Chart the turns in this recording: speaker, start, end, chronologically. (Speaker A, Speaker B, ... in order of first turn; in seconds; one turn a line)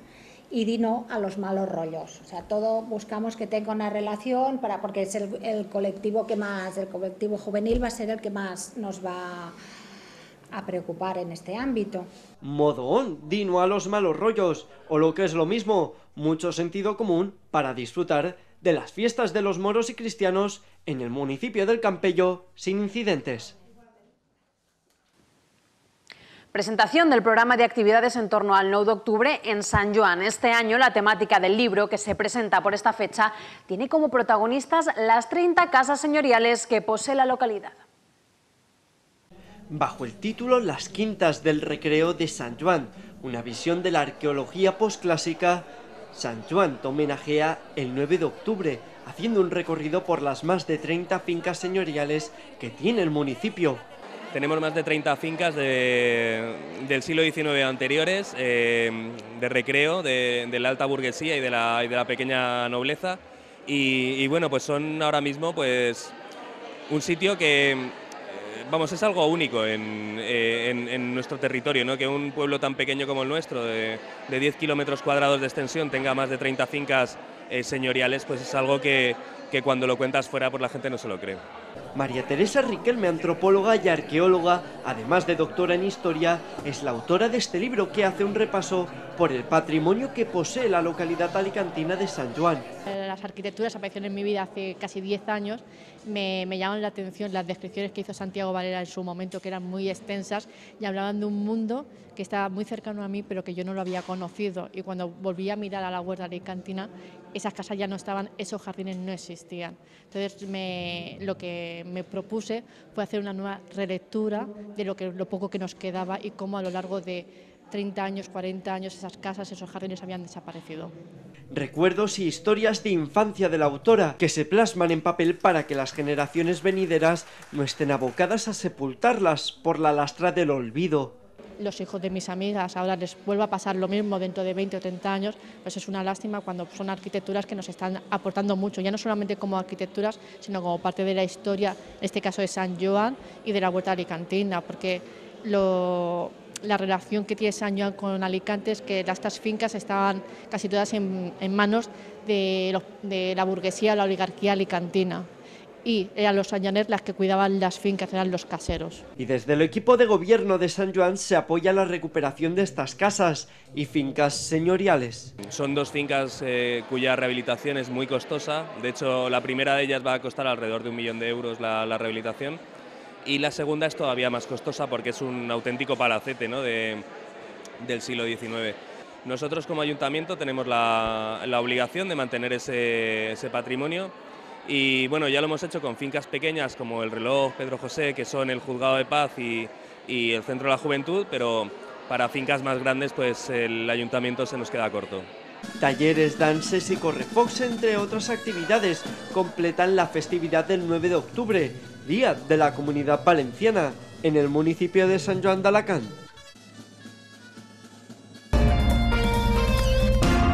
Speaker A: 0.5-9.6
Speaker A: 10.5-12.1
Speaker B: 12.4-23.5
Speaker C: 26.5-37.8
Speaker B: 39.7-53.8
Speaker D: 54.3-66.1
Speaker D: 66.9-81.4
Speaker B: 81.9-92.7
Speaker E: 92.9-120.9
Speaker B: 121.5-131.2
Speaker E: 131.6-155.3
Speaker E: 155.8-159.0
Speaker B: 159.2-165.3
Speaker D: 165.4-172.6
Speaker D: 173.2-177.0
Speaker D: 177.8-184.1
Speaker D: 184.6-195.3
Speaker B: 195.8-206.2